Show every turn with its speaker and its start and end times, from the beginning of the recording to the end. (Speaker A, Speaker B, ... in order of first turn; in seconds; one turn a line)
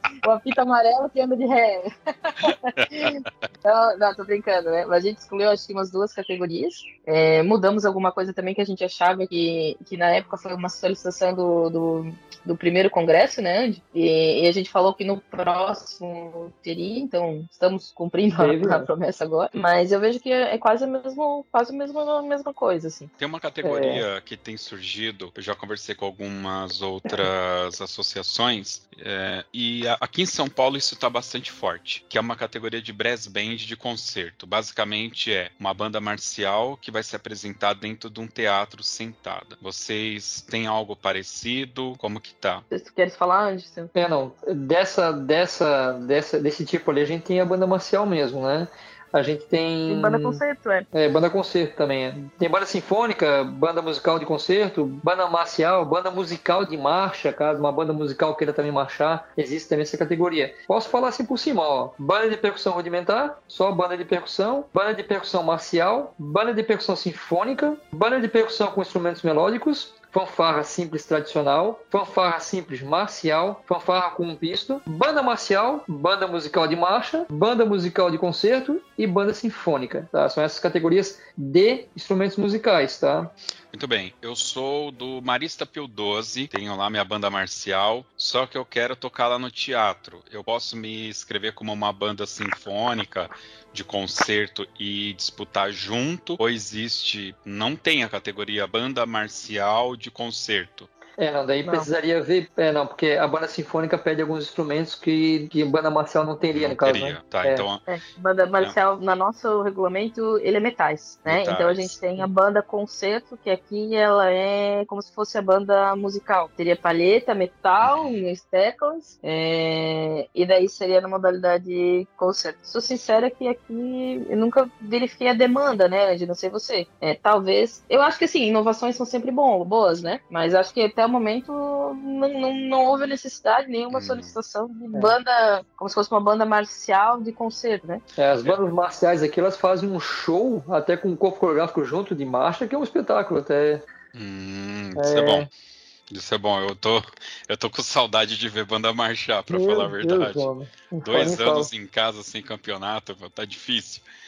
Speaker A: 0.2-23.1
Speaker B: 18.4-18.9
Speaker C: 23.2-42.6
Speaker B: 23.6-24.1
Speaker A: 42.7-43.9
Speaker B: 43.9-50.4
Speaker A: 49.9-50.9
Speaker B: 50.9-83.3
Speaker C: 83.7-100.9
Speaker B: 101.2-107.7
Speaker A: 101.6-101.9
Speaker C: 106.5-107.9
Speaker A: 107.9-138.0
Speaker C: 111.3-112.0
Speaker C: 117.8-118.2
Speaker C: 133.9-134.3
Speaker B: 138.2-143.9
Speaker C: 144.1-145.5
Speaker B: 145.0-145.5
Speaker C: 146.1-150.5
Speaker B: 149.5-151.7
Speaker C: 151.1-154.0